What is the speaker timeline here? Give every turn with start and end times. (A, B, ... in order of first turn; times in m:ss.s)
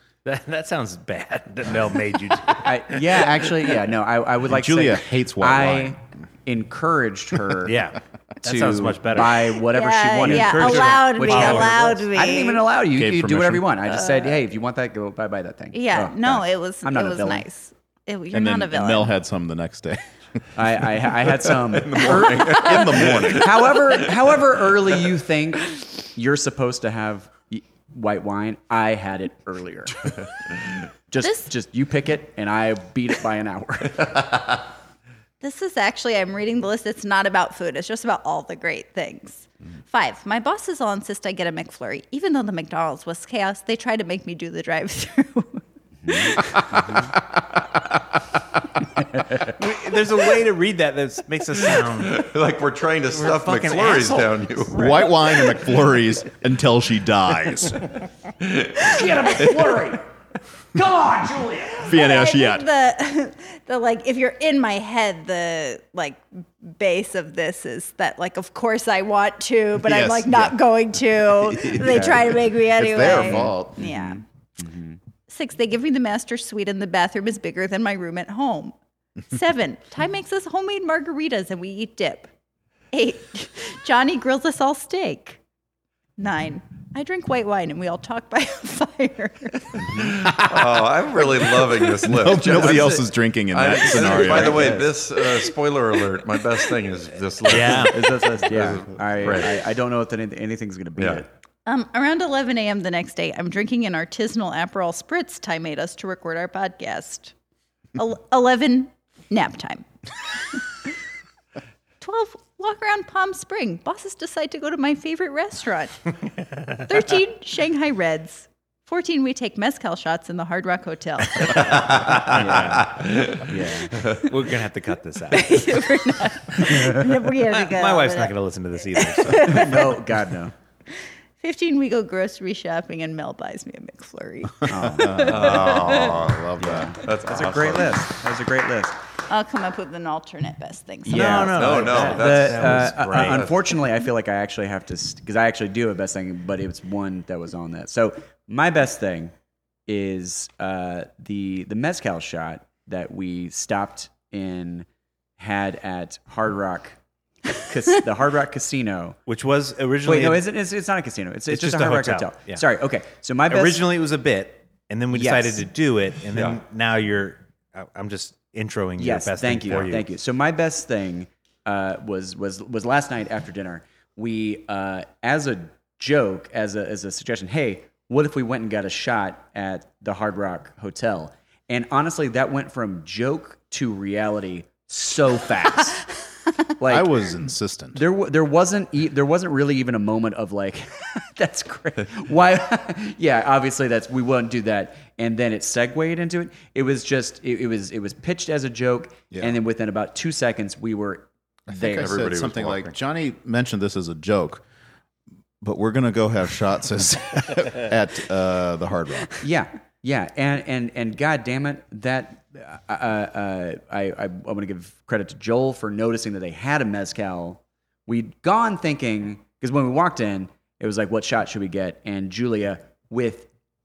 0:00.2-0:03.5 A
0:02.6-0:07.8 B
0:04.5-0:06.0 C
0:07.6-0:09.6 A
0:08.4-0:17.4 B
0:09.6-0:12.6 D
0:10.2-0:11.9 A
0:12.9-0:13.7 C
0:15.7-0:19.1 D
0:18.3-0:20.0 C
0:20.5-0:30.1 B
0:21.7-0:24.1 E
0:22.0-0:23.8 C
0:31.1-0:34.4 B
0:31.2-0:31.5 D
0:35.4-0:47.0 D
0:46.0-0:47.1 B
0:46.8-0:48.0 C
0:49.4-0:52.3 A
0:51.7-0:55.0 E
0:53.1-0:55.0 A
0:54.7-0:57.9 C
0:58.4-0:59.7 E
0:58.8-1:00.0 A
1:00.7-1:01.9 A
1:01.8-1:02.6 C
1:01.9-1:14.2 D
1:09.8-1:10.6 C
1:11.1-1:13.9 C
1:13.1-1:15.0 B
1:15.3-1:18.8 D
1:19.3-1:22.3 D
1:22.9-1:25.4 D
1:26.2-1:29.9 D
1:29.9-1:39.6 E
1:32.0-1:34.8 C
1:33.9-1:34.9 B
1:37.4-1:38.3 A
1:37.7-1:41.3 B
1:41.0-1:41.2 E
1:41.6-1:47.3 D
1:47.9-1:49.9 D
1:52.0-1:56.1 D
1:56.8-2:01.9 D
2:01.4-2:02.9 A
2:02.0-2:03.9 B
2:02.8-2:03.4 E
2:04.0-2:04.2 E
2:04.2-2:05.7 A
2:05.3-2:08.3 D
2:06.7-2:07.1 B
2:07.2-2:09.7 A
2:08.9-2:10.0 D
2:09.3-2:10.5 B
2:11.4-2:16.1 D
2:14.7-2:15.4 B
2:15.0-2:16.9 C
2:15.2-2:18.0 E
2:16.6-2:18.9 B
2:19.3-2:21.5 D
2:21.0-2:29.3 B
2:21.1-2:23.4 A
2:21.5-2:23.8 E
2:29.9-2:34.9 B
2:35.4-2:37.0 B
2:37.5-2:39.2 B
2:39.2-2:40.5 A
2:40.0-2:43.9 B
2:41.5-2:42.6 A
2:43.5-2:50.1 A
2:45.1-2:45.6 B
2:46.3-2:46.6 E
2:49.0-3:06.0 B
3:06.8-3:07.3 B
3:06.9-3:08.0 C
3:07.9-3:22.2 B
3:21.7-3:24.6 C
3:22.0-3:23.0 E
3:25.6-3:29.3 C
3:29.4-3:43.5 B